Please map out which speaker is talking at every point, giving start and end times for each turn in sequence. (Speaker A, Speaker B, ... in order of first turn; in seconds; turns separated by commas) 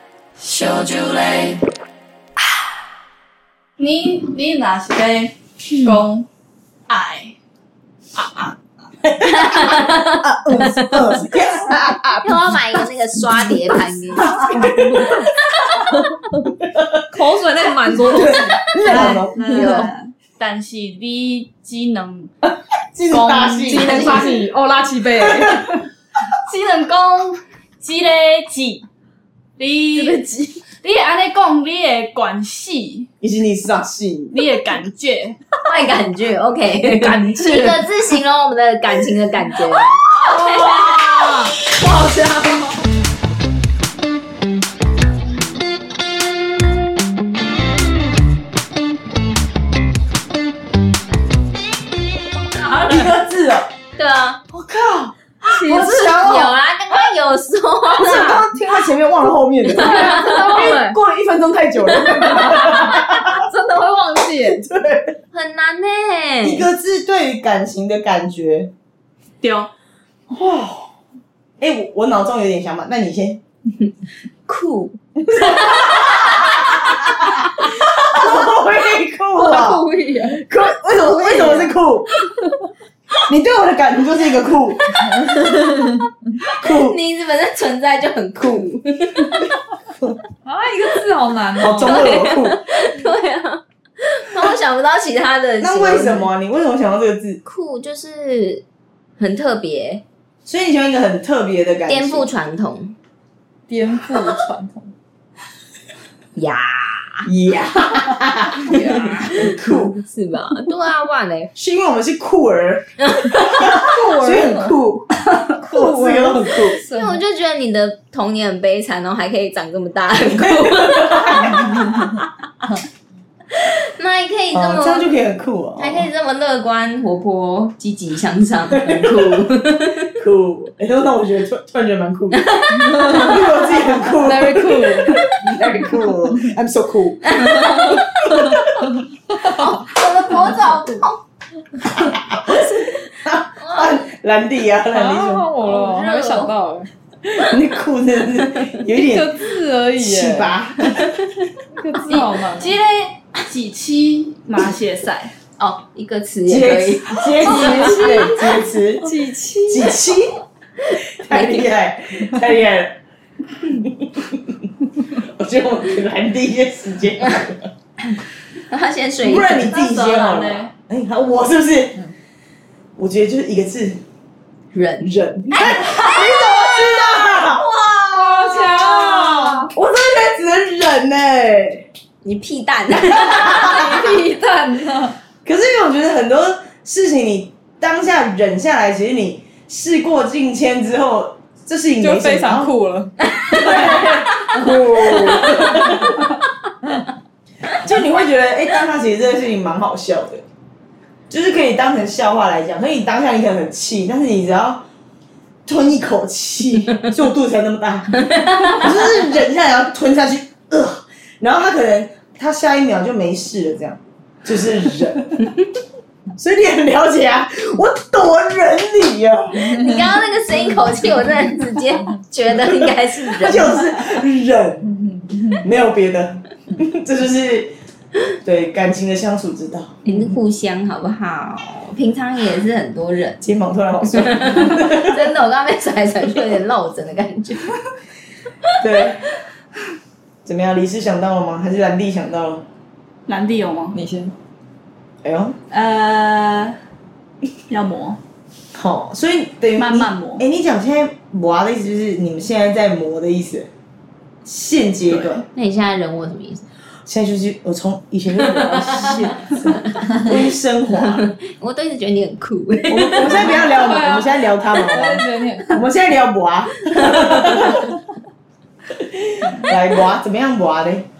Speaker A: 0.4-1.6, Speaker A: 3.8-6.3, Speaker A: 6.9-7.3, Speaker B: 9.0-12.6, Speaker C: 9.2-11.1, Speaker C: 12.2-14.4, Speaker B: 14.1-15.3, Speaker D: 14.5-15.3, Speaker B: 16.6-17.0, Speaker D: 17.1-19.9, Speaker B: 18.0-19.8, Speaker A: 18.9-22.3, Speaker C: 19.5-19.9, Speaker B: 22.4-24.4, Speaker A: 23.1-24.4, Speaker D: 23.6-25.8, Speaker B: 25.2-25.6, Speaker A: 26.3-28.8, Speaker A: 29.6-30.2, Speaker D: 29.9-30.6, Speaker A: 30.7-33.1, Speaker B: 33.2-34.3, Speaker A: 34.3-35.4, Speaker C: 35.6-41.2, Speaker D: 37.1-37.8, Speaker A: 40.3-42.7, Speaker B: 52.6-53.7, Speaker C: 54.0-54.4, Speaker B: 54.5-56.5, Speaker D: 55.5-56.2, Speaker C: 55.5-58.5, Speaker B: 57.8-63.4, Speaker D: 59.7-61.0, Speaker C: 59.8-60.7, Speaker D: 62.6-64.7, Speaker B: 64.5-65.1, Speaker C: 65.3-66.7, Speaker B: 66.4-68.7, Speaker A: 69.4-69.7, Speaker B: 70.3-70.9, Speaker B: 71.6-73.4, Speaker C: 74.5-76.0, Speaker B: 75.2-82.1, Speaker D: 79.3-80.4, Speaker B: 83.3-84.9, Speaker C: 85.1-86.0, Speaker B: 86.4-87.0, Speaker C: 86.6-89.4, Speaker D: 90.4-92.2, Speaker B: 91.6-92.6, Speaker C: 91.8-96.3, Speaker B: 95.6-97.4, Speaker C: 97.4-98.6, Speaker C: 99.2-100.0, Speaker B: 100.5-102.3, Speaker C: 101.9-103.0, Speaker D: 103.7-104.9, Speaker C: 106.3-107.3, Speaker B: 107.2-110.0, Speaker D: 108.6-109.4, Speaker C: 108.7-111.5, Speaker B: 111.5-116.8, Speaker C: 113.0-113.6, Speaker D: 113.7-114.8, Speaker D: 115.5-117.2, Speaker C: 116.9-122.2, Speaker B: 120.3-121.8, Speaker C: 123.5-125.1, Speaker B: 124.5-126.1, Speaker C: 125.8-130.1, Speaker B: 128.7-129.4, Speaker B: 130.2-137.5, Speaker C: 132.3-133.8, Speaker D: 132.9-133.3, Speaker D: 134.2-135.2, Speaker C: 137.2-138.6, Speaker C: 139.3-141.2, Speaker B: 142.0-145.5, Speaker C: 143.6-144.1, Speaker D: 144.9-146.9, Speaker C: 145.6-146.5, Speaker B: 147.2-151.1, Speaker D: 148.8-150.6, Speaker D: 151.7-152.7, Speaker A: 152.0-155.3, Speaker C: 155.6-158.4, Speaker B: 156.4-159.1, Speaker D: 157.3-160.0, Speaker B: 159.7-160.4, Speaker B: 160.9-163.0, Speaker C: 161.2-161.7, Speaker B: 163.6-167.7, Speaker C: 168.7-169.8, Speaker B: 169.2-172.1, Speaker A: 169.7-170.7, Speaker B: 173.0-174.0, Speaker C: 174.7-175.1, Speaker B: 175.0-177.7, Speaker D: 176.6-179.7, Speaker B: 178.7-181.9, Speaker C: 182.2-184.2, Speaker D: 183.5-185.2, Speaker B: 185.4-192.7, Speaker D: 192.0-193.1, Speaker B: 193.4-196.2, Speaker B: 197.7-200.4, Speaker B: 201.3-204.8, Speaker B: 205.7-215.5, Speaker C: 208.3-208.8, Speaker B: 216.3-219.8, Speaker C: 219.5-223.9, Speaker B: 222.6-224.9, Speaker B: 225.5-227.7, Speaker B: 228.4-230.0, Speaker C: 230.0-233.4, Speaker B: 233.4-235.2, Speaker C: 234.1-237.7, Speaker B: 238.8-239.2, Speaker B: 240.4-242.7, Speaker A: 243.3-244.0, Speaker D: 243.9-244.3, Speaker B: 245.2-245.6, Speaker A: 245.7-246.8, Speaker A: 247.7-248.2, Speaker B: 248.7-253.7, Speaker A: 249.8-250.4, Speaker B: 254.4-255.4, Speaker A: 255.1-255.4, Speaker C: 255.5-256.6, Speaker B: 257.1-261.2, Speaker C: 261.1-263.7, Speaker B: 262.9-267.9, Speaker D: 263.2-265.9, Speaker C: 267.0-267.8, Speaker B: 268.9-271.1